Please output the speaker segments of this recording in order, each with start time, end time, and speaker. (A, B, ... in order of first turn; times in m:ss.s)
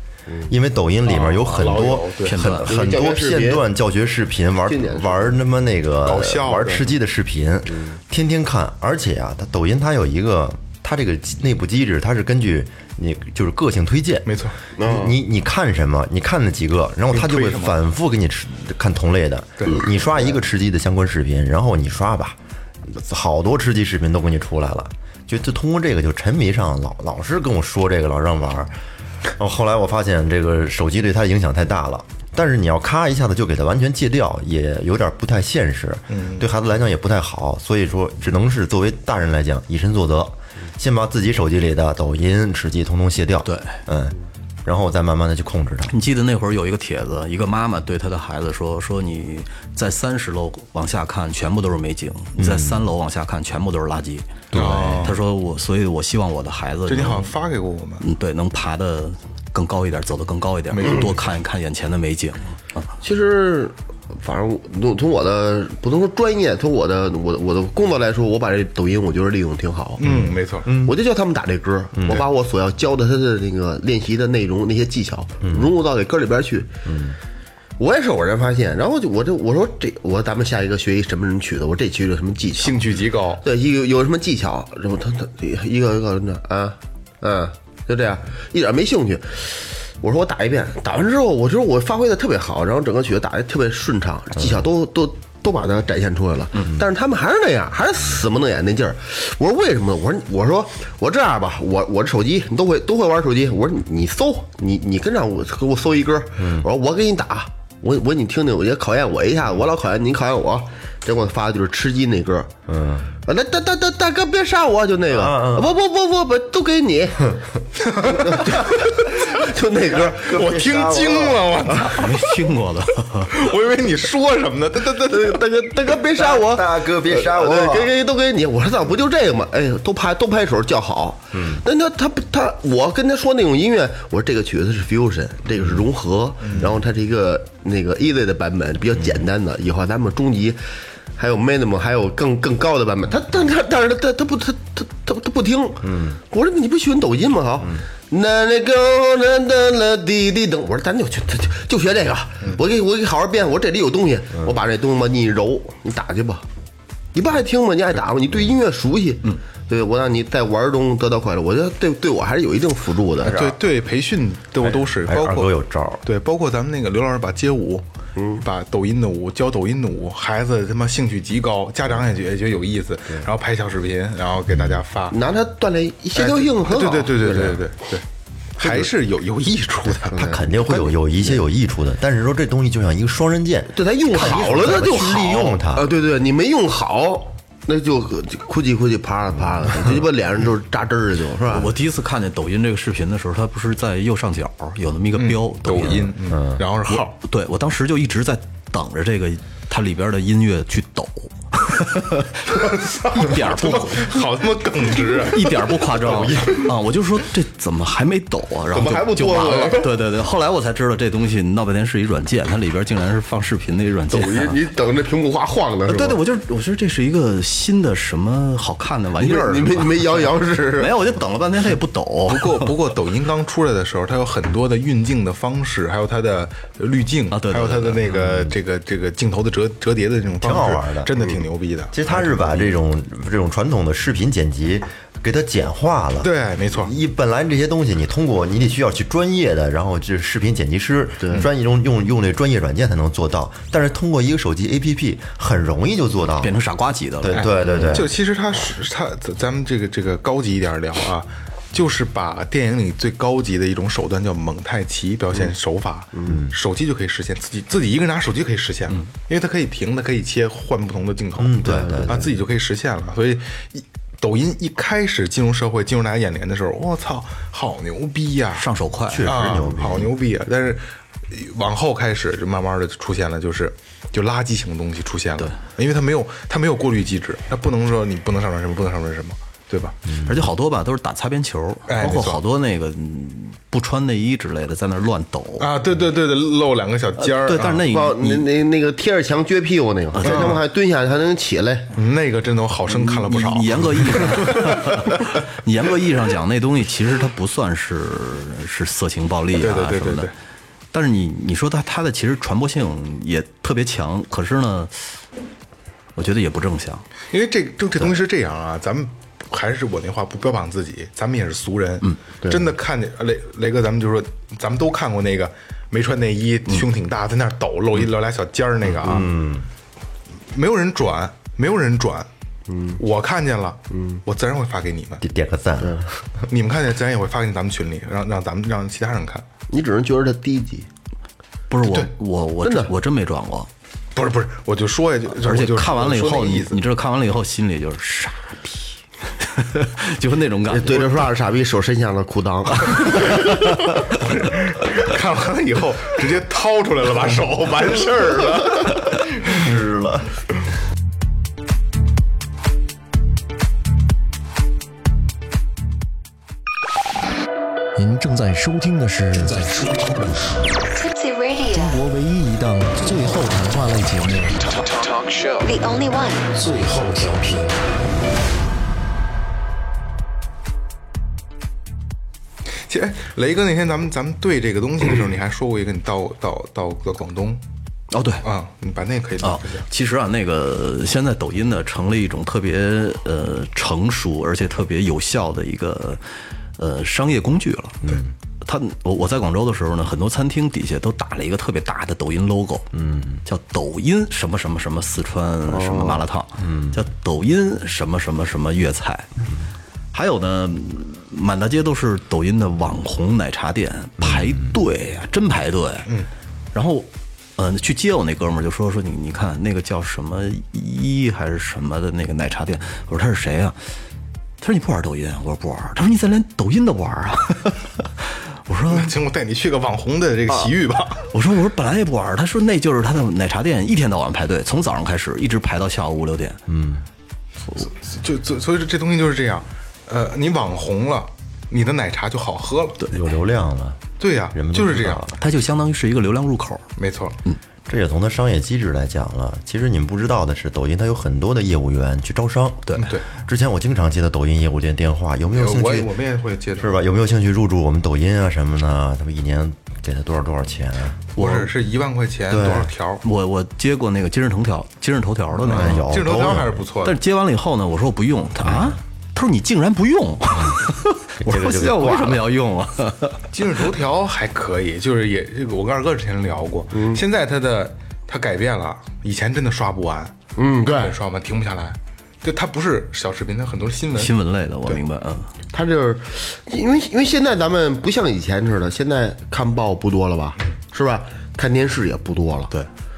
0:00.5-0:28.7 A
0:01.0-0:02.4 B
0:02.2-0:02.7 C
0:02.5-0:03.6 D
0:04.7-0:05.3 D
0:06.0-0:06.9 B
0:14.3-0:14.6 B
0:14.8-0:15.2 D
0:17.1-0:17.8 B
0:29.4-0:46.0 A
0:36.1-0:36.5 B
0:43.4-0:43.8 C
0:45.9-0:57.3 C
0:52.4-0:52.9 A
0:54.5-0:55.2 B
0:54.5-0:55.0 A
0:56.9-0:58.0 B
0:58.0-1:02.9 C
1:00.7-1:01.1 B
1:03.0-1:10.0 D
1:10.0-1:10.7 B
1:10.0-1:11.0 A
1:10.8-1:16.7 D
1:11.9-1:12.2 A
1:15.4-1:15.7 A
1:16.8-1:17.2 A
1:17.8-1:22.8 D
1:22.6-1:23.4 B
1:23.4-1:52.5 D
1:46.4-1:46.7 A
1:52.7-1:53.1 A
1:53.2-1:57.4 D
1:55.1-1:55.7 A
1:57.8-1:59.4 B
1:58.0-2:00.3 D
2:00.1-2:01.6 A
2:00.2-2:02.5 B
2:01.8-2:03.3 C
2:03.3-2:05.4 B
2:05.0-2:20.6 D
2:06.2-2:07.9 A
2:11.3-2:11.6 A
2:21.2-2:36.5 D
2:25.8-2:26.2 A
2:37.1-2:43.5 D
2:43.2-2:45.5 B
2:44.7-2:46.0 A
2:46.0-2:47.8 B
2:48.2-2:48.4 D
2:48.4-2:55.2 B
2:54.5-2:54.8 A
2:55.1-2:57.6 D
2:56.2-2:58.0 B
2:58.6-3:00.3 B
3:00.1-3:01.4 D
3:00.1-3:05.9 A
3:03.7-3:11.7 D
3:11.5-3:16.1 C
3:15.2-3:17.2 B
3:16.2-3:16.6 A
3:16.9-3:22.5 C
3:22.5-3:26.6 B
3:23.0-3:24.2 C
3:25.1-3:34.6 C
3:28.7-3:30.0 D
3:34.1-3:36.2 D
3:35.9-3:42.8 C
3:39.2-3:40.9 D
3:42.3-3:52.7 B
3:47.3-3:48.1 C
3:48.1-3:48.5 A
3:50.4-3:51.1 A
3:51.9-4:06.5 A
3:56.2-3:56.9 B
4:01.2-4:01.5 D
4:06.4-4:07.5 C
4:07.2-4:08.1 A
4:07.3-4:28.7 B
4:07.7-4:08.0 D
4:16.3-4:16.5 A
4:21.4-4:22.3 A
4:21.6-4:22.3 D
4:28.6-4:29.4 C
4:29.1-4:30.1 A
4:29.2-4:40.0 B
4:40.1-4:40.4 A
4:40.2-4:45.7 C
4:41.9-4:42.4 B
4:45.6-4:47.9 B
4:47.2-4:48.5 C
4:47.9-4:51.9 D
4:50.1-4:50.6 C
4:50.2-4:50.6 B
4:52.0-4:55.3 B
4:52.9-5:00.3 C
4:59.6-5:00.3 B
5:00.9-5:05.2 C
5:06.2-5:07.1 C
5:07.3-5:19.3 B
5:12.4-5:12.7 D
5:19.0-5:19.7 A
5:20.5-5:22.3 B
5:22.7-5:23.0 D
5:23.0-5:25.2 B
5:23.9-5:24.2 D
5:25.2-5:26.2 A
5:26.4-5:29.4 B
5:29.7-5:30.9 D
5:31.7-5:33.7 C
5:32.6-5:32.9 D
5:34.2-5:36.8 B
5:35.3-5:41.3 C
5:40.7-5:43.5 D
5:42.9-5:43.6 C
5:44.1-5:49.7 B
5:49.4-5:50.3 A
5:58.0-6:00.6 E
6:01.0-6:02.0 F
6:01.7-6:04.7 E
6:05.4-6:06.4 F
6:06.5-6:07.8 E
6:12.9-6:17.6 B
6:18.1-6:18.5 C
6:18.4-6:19.9 B
6:19.4-6:26.2 C
6:26.8-6:28.1 C
6:28.0-6:28.3 A
6:28.6-6:32.9 C
6:32.9-6:33.4 A
6:33.4-6:39.3 C
6:35.7-6:36.2 D
6:36.6-6:37.0 A
6:40.1-6:46.1 C
6:44.2-6:44.7 A
6:46.7-6:53.8 C
6:54.6-6:59.1 C
6:58.9-7:01.3 B
7:01.3-7:06.6 C
7:06.7-7:07.1 A
7:07.7-7:13.0 B
7:13.1-7:15.4 A
7:14.2-7:15.2 B
7:15.4-7:16.9 C
7:17.0-7:17.4 B
7:17.9-7:26.1 A
7:22.9-7:23.1 C
7:23.0-7:23.3 B
7:25.5-7:27.0 B
7:26.8-7:31.2 A
7:31.4-7:31.7 C
7:31.4-7:33.2 B
7:32.5-7:32.9 A
7:33.2-7:36.1 C
7:35.6-7:37.2 B
7:35.7-7:36.8 A
7:37.0-7:43.5 C
7:38.7-7:39.0 A
7:41.4-7:42.5 A
7:43.5-7:50.4 B
7:46.9-7:47.2 D
7:50.6-7:51.2 D
7:50.9-7:54.4 B
7:54.1-7:55.5 C
7:55.7-8:02.7 D